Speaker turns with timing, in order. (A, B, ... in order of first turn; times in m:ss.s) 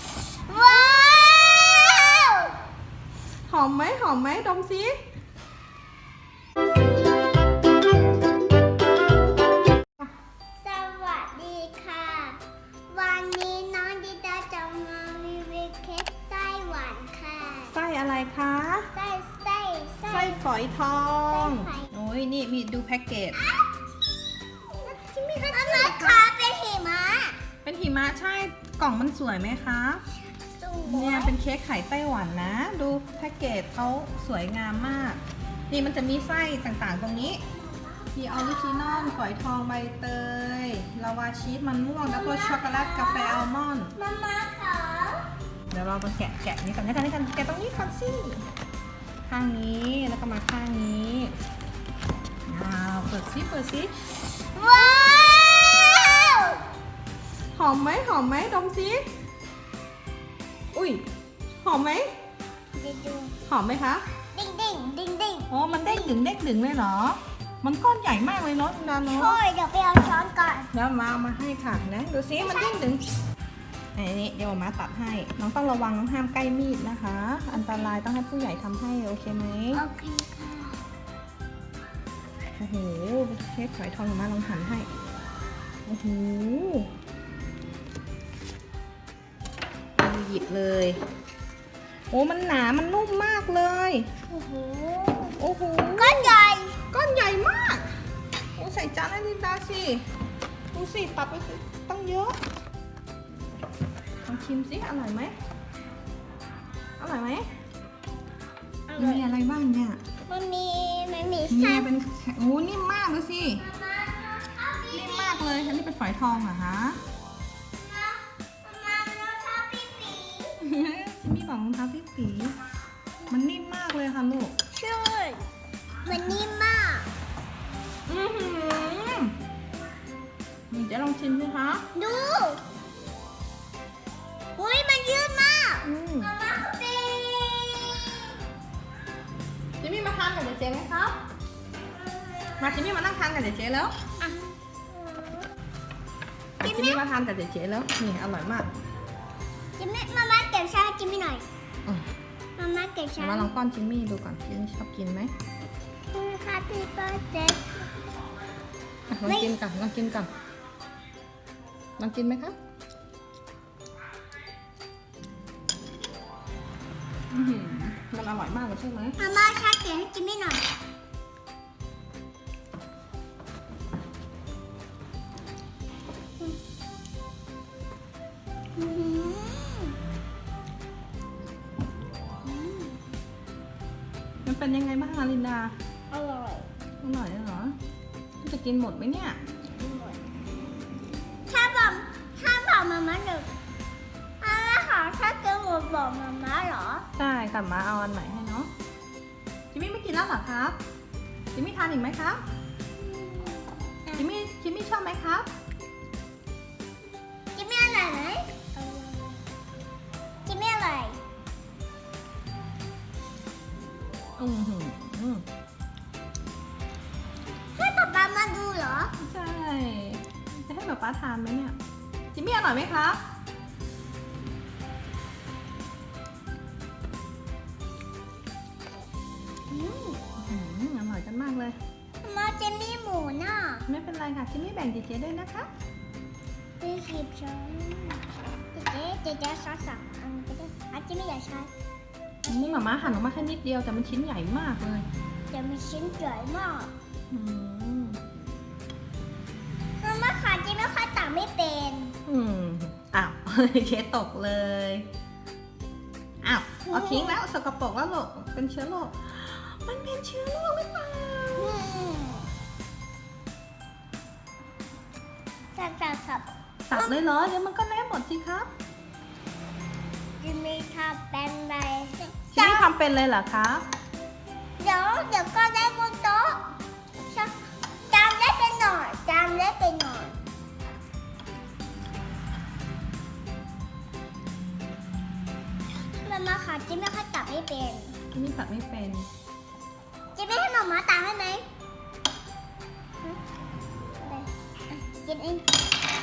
0:00.3-0:02.6 A
0:03.5-0:04.9 B
0:10.6-0:17.7 A
0:17.7-0:18.9 B
0:18.9-0:20.4 A
0:20.1-0:23.4 B
0:21.3-0:21.9 A
0:23.4-0:23.7 A
0:24.8-0:26.2 B
0:25.5-0:27.4 A
0:27.6-0:30.0 B
0:30.3-0:31.4 A
0:30.8-0:37.4 B
0:37.5-0:39.2 A
0:38.1-0:44.0 B
0:42.1-0:45.3 A
0:45.7-0:48.4 B
0:49.3-0:51.3 B
0:52.5-0:54.2 B
0:54.5-0:56.6 A
0:57.5-0:59.0 B
1:00.7-1:01.0 B
1:01.6-1:02.1 B
1:02.8-1:03.3 A
1:03.5-1:04.0 B
1:04.3-1:06.1 A
1:05.5-1:09.4 B
1:09.0-1:10.7 A
1:10.7-1:13.0 B
1:12.4-1:12.8 A
1:14.0-1:19.8 B
1:19.7-1:20.8 A
1:22.6-1:24.9 B
1:25.9-1:26.9 B
1:30.0-1:31.0 B
1:32.1-1:34.1 B
1:34.3-1:35.4 A
1:35.4-1:36.4 B
1:36.0-1:36.8 A
1:36.9-1:37.9 B
1:38.6-1:40.0 B
1:40.7-1:42.4 B
1:44.3-1:45.3 B
1:47.0-1:47.5 B
1:48.9-1:49.3 A
1:49.0-1:50.0 B
1:50.3-1:51.9 A
1:51.5-1:53.6 B
1:53.6-1:55.7 A
1:54.9-1:57.0 B
1:57.8-2:00.6 A
2:00.6-2:02.6 B
2:03.3-2:04.5 B
2:04.7-2:05.4 A
2:06.0-2:07.1 A
2:08.1-2:09.3 B
2:10.7-2:11.8 B
2:11.9-2:12.6 A
2:14.6-2:18.4 A
2:15.8-2:16.3 B
2:19.8-2:21.2 B
2:21.9-2:23.0 A
2:22.6-2:24.0 B
2:24.2-2:25.5 A
2:26.6-2:27.0 A
2:26.6-2:28.7 B
2:29.8-2:31.4 A
2:32.6-2:33.5 A
2:33.2-2:35.3 B
2:36.1-2:37.9 A
2:39.1-2:40.3 B
2:39.2-2:39.6 A
2:42.0-2:42.5 B
2:47.3-2:49.2 B
2:49.2-2:50.6 A
2:58.8-3:00.0 A
3:02.4-3:03.0 A
3:04.4-3:05.7 B
3:06.1-3:06.7 A
3:07.0-3:07.8 B
3:08.4-3:09.4 B
3:09.8-3:10.2 A
3:11.5-3:13.5 A
3:14.4-3:17.0 A
3:17.2-3:18.7 B
3:19.7-3:20.8 B
3:21.5-3:22.4 B
3:23.0-3:24.3 A
3:24.2-3:25.5 B
3:27.5-3:29.4 A
3:30.4-3:31.2 A
3:34.4-3:35.4 B
3:37.7-3:39.1 A
3:39.2-3:41.8 B
3:42.3-3:43.2 B
3:49.7-3:50.2 A
3:50.4-3:51.8 B
3:52.2-3:53.8 A
3:53.9-3:55.7 B
3:56.8-4:01.7 A
4:02.4-4:03.3 A
4:02.5-4:05.0 B
4:05.5-4:06.9 A
4:07.3-4:08.2 B
4:10.0-4:12.2 A
4:12.2-4:15.1 B
4:16.4-4:21.9 B
4:16.8-4:17.4 A
4:21.6-4:22.5 A
4:25.7-4:27.1 A
4:26.9-4:28.7 B
4:30.4-4:32.9 A
4:32.5-4:33.8 B
4:34.8-4:37.6 A
4:38.1-4:40.4 A
4:46.2-4:48.2 A
4:48.3-4:49.3 B
4:50.4-4:51.6 A
4:54.2-4:55.7 A